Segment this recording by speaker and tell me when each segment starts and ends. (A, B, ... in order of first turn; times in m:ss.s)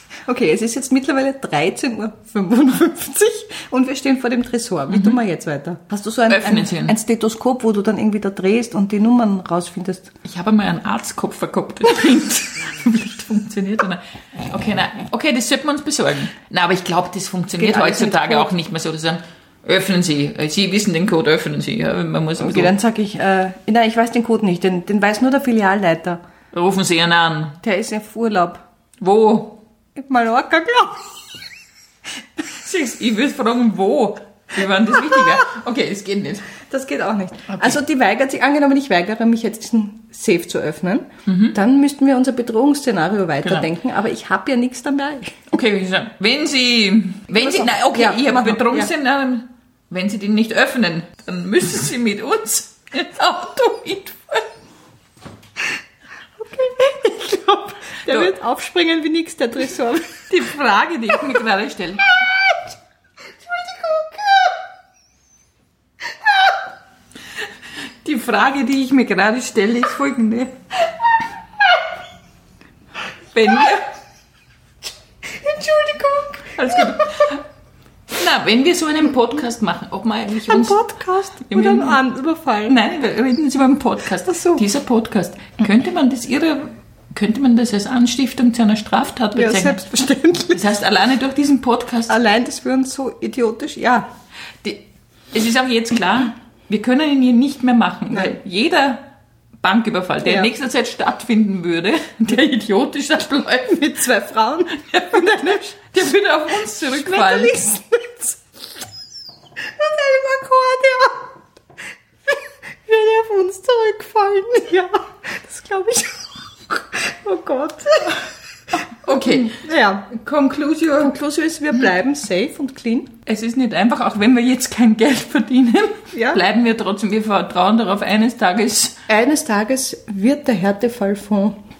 0:00.3-0:10.1 A
0:04.9-0:05.2 B
0:06.3-0:07.0 B
0:10.2-0:22.7 B
0:17.6-0:18.5 A
0:22.4-0:26.2 A
0:26.5-0:27.6 B
0:27.6-0:28.6 A
0:29.0-0:29.6 B
0:30.0-0:31.1 A
0:32.5-0:36.5 B
0:36.7-0:45.4 A
0:37.5-0:37.8 B
0:41.2-0:41.6 B
0:43.4-0:43.7 B
0:45.5-0:54.5 B
0:47.4-0:48.9 A
0:56.4-1:00.3 A
0:58.1-0:58.3 B
1:00.3-1:02.2 B
1:02.2-1:02.5 A
1:03.5-1:04.5 A
1:08.0-1:10.5 B
1:13.3-1:13.9 B
1:15.2-1:17.0 A
1:16.6-1:17.4 B
1:18.1-1:20.8 B
1:20.3-1:22.8 A
1:21.5-1:22.0 B
1:22.7-1:29.9 B
1:24.2-1:24.6 A
1:29.3-1:30.6 A
1:30.5-1:32.1 B
1:32.1-1:34.0 A
1:34.6-1:39.0 B
1:39.6-1:43.9 B
1:40.2-1:40.5 A
1:43.7-1:45.7 A
1:44.8-1:47.6 B
1:46.8-1:48.4 A
1:49.6-1:51.4 A
1:52.3-1:58.3 A
1:58.9-1:59.6 B
1:59.0-2:00.1 A
2:00.1-2:01.1 B
2:00.9-2:03.1 A
2:03.2-2:09.0 B
2:06.1-2:06.4 A
2:09.1-2:11.6 A